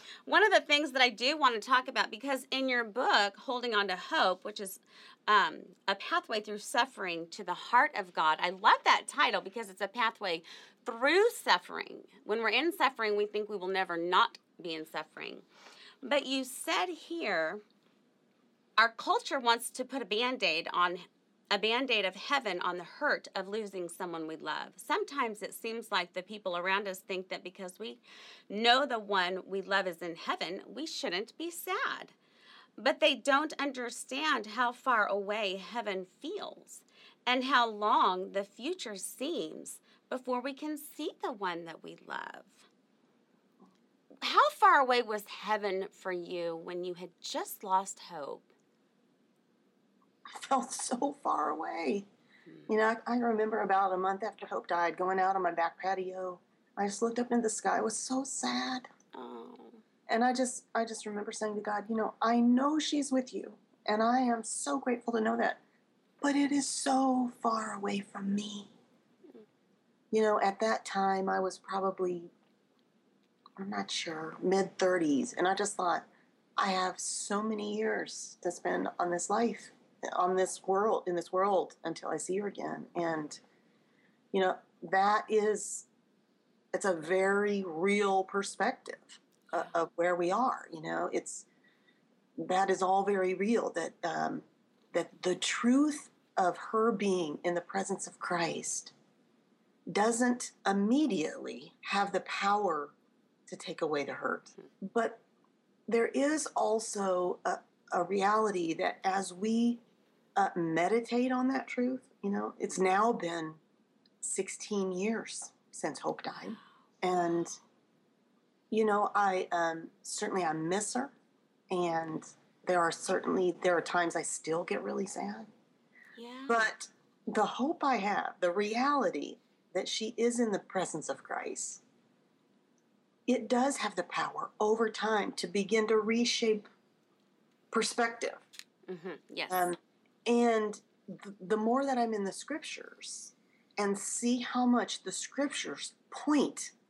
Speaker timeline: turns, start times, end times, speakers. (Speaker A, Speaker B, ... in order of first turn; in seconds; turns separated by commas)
Speaker A: 0.2-15.5, Speaker A: 16.0-17.6, Speaker A: 18.8-32.1, Speaker A: 32.8-42.7, Speaker A: 44.2-48.5, Speaker B: 50.4-52.0, Speaker B: 52.7-58.9, Speaker A: 59.1-59.8, Speaker B: 60.1-65.6, Speaker B: 66.2-68.7, Speaker B: 70.1-72.3, Speaker B: 73.6-76.1, Speaker B: 76.6-83.4, Speaker B: 84.3-85.9, Speaker B: 86.7-91.5, Speaker B: 92.4-98.9, Speaker B: 99.9-102.9, Speaker B: 103.5-105.2, Speaker B: 105.9-109.8, Speaker B: 110.4-113.6, Speaker B: 114.2-117.6, Speaker B: 118.7-121.1, Speaker B: 121.7-125.5, Speaker A: 126.2-126.7, Speaker B: 126.5-131.8, Speaker B: 133.3-136.7, Speaker B: 137.7-138.4, Speaker A: 138.9-139.7, Speaker B: 139.5-146.7